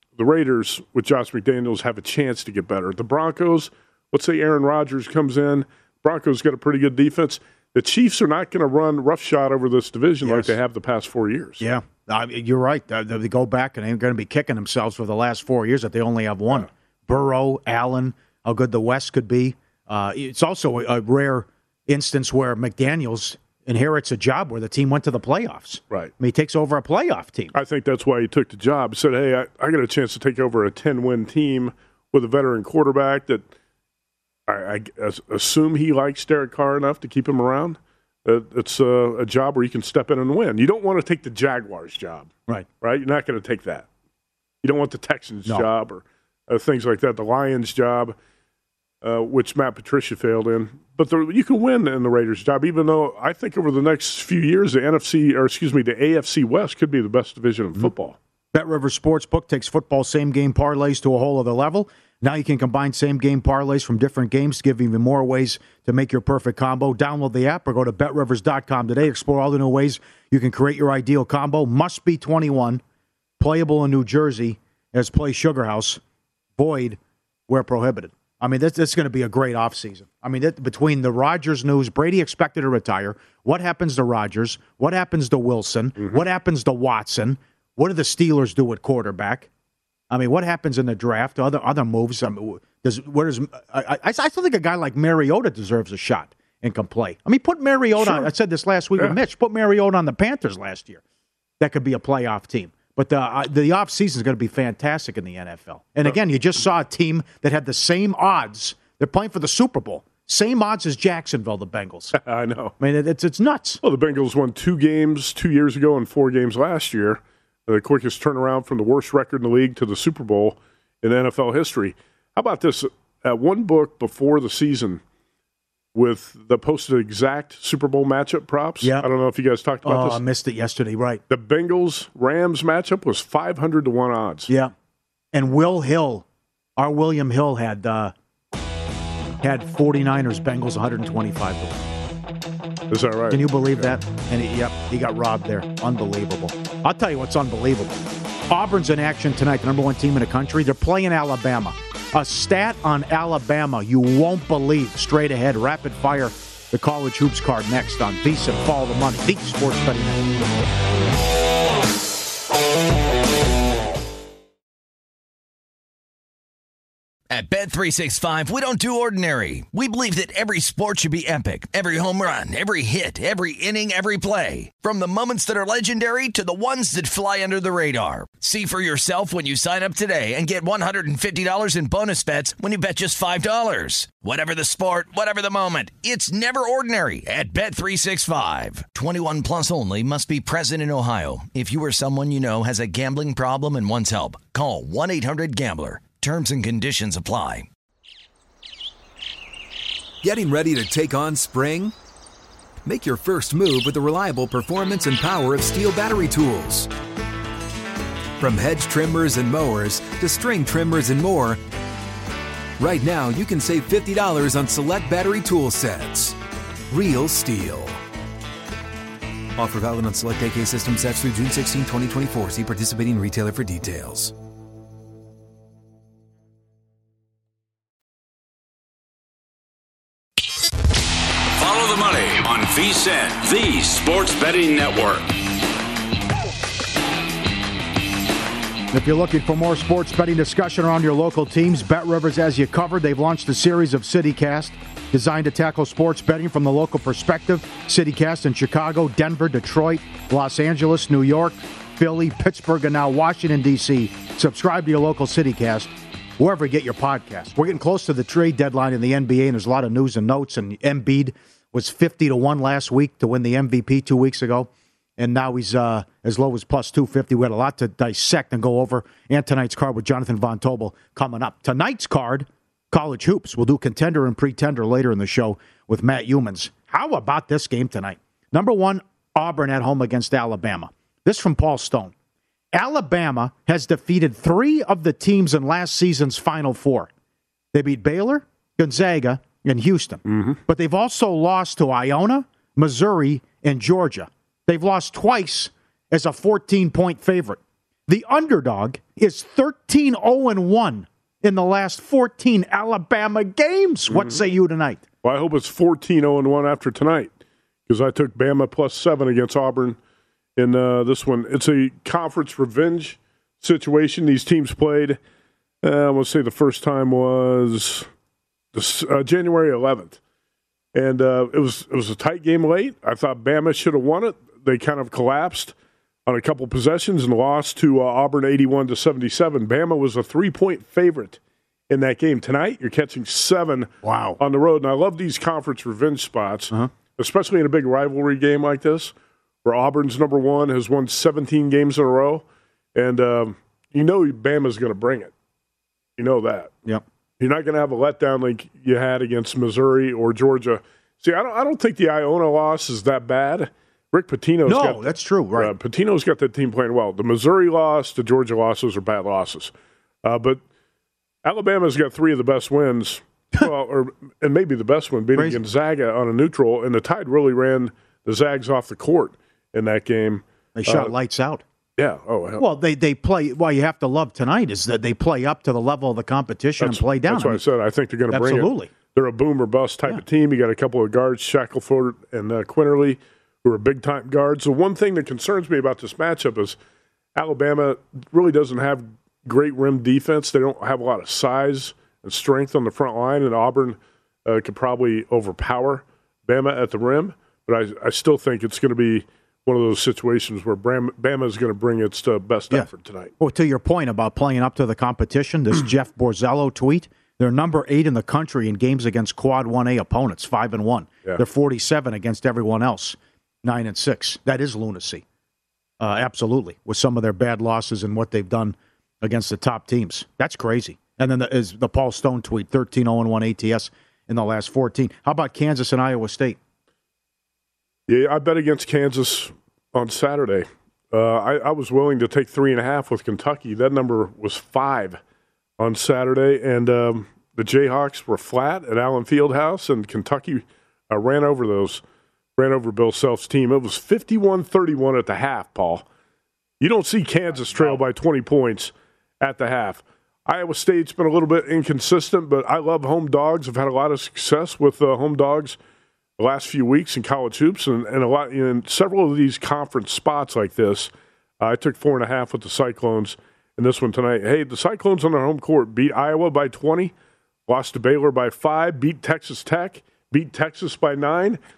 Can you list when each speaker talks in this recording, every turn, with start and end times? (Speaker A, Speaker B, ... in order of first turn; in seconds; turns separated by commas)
Speaker A: 0.2-11.6, Speaker B: 10.2-10.5, Speaker B: 11.6-27.5, Speaker A: 27.5-33.5, Speaker A: 34.5-43.9, Speaker A: 44.6-48.2, Speaker A: 49.0-58.2, Speaker B: 58.5-72.8, Speaker B: 73.4-76.0, Speaker B: 76.6-89.5, Speaker B: 90.1-101.0, Speaker A: 98.0-98.3, Speaker B: 101.6-112.2, Speaker A: 112.2-112.7, Speaker B: 112.8-113.8, Speaker A: 113.8-125.0, Speaker A: 125.9-130.2, Speaker B: 129.8-131.2, Speaker A: 131.3-134.5, Speaker B: 134.5-134.7, Speaker B: 135.3-136.2, Speaker B: 136.8-138.1, Speaker B: 139.4-141.8, Speaker A: 142.9-143.9, Speaker B: 143.3-160.4, Speaker C: 167.3-197.7, Speaker D: 200.2-201.9, Speaker D: 202.8-206.9, Speaker D: 208.4-211.6, Speaker D: 212.8-216.4, Speaker D: 216.9-218.0, Speaker D: 219.6-224.3, Speaker E: 231.5-235.3, Speaker B: 238.9-282.1, Speaker B: 282.7-287.1, Speaker B: 287.7-305.0, Speaker A: 290.3-290.6, Speaker A: 304.1-304.4, Speaker A: 305.2-307.3, Speaker A: 307.9-310.0, Speaker A: 310.6-315.2, Speaker A: 315.8-318.1, Speaker A: 318.7-320.2, Speaker A: 320.9-325.8, Speaker A: 326.3-331.4, Speaker A: 331.9-339.1, Speaker B: 334.0-334.4, Speaker A: 339.6-345.3, Speaker A: 346.2-346.7, Speaker A: 347.4-359.7, Speaker B: 354.7-355.7, Speaker A: 360.2-360.6, Speaker A: 361.4-371.1, Speaker B: 365.4-365.6, Speaker B: 370.8-371.6, Speaker A: 372.0-372.6, Speaker B: 372.6-377.6, Speaker A: 376.8-386.8, Speaker B: 378.3-378.9, Speaker A: 387.4-403.3, Speaker B: 403.4-415.2, Speaker B: 416.0-426.6, Speaker A: 428.1-435.2, Speaker A: 435.8-442.0, Speaker A: 442.6-446.1, Speaker A: 446.8-455.8, Speaker A: 456.4-467.1, Speaker A: 467.7-471.6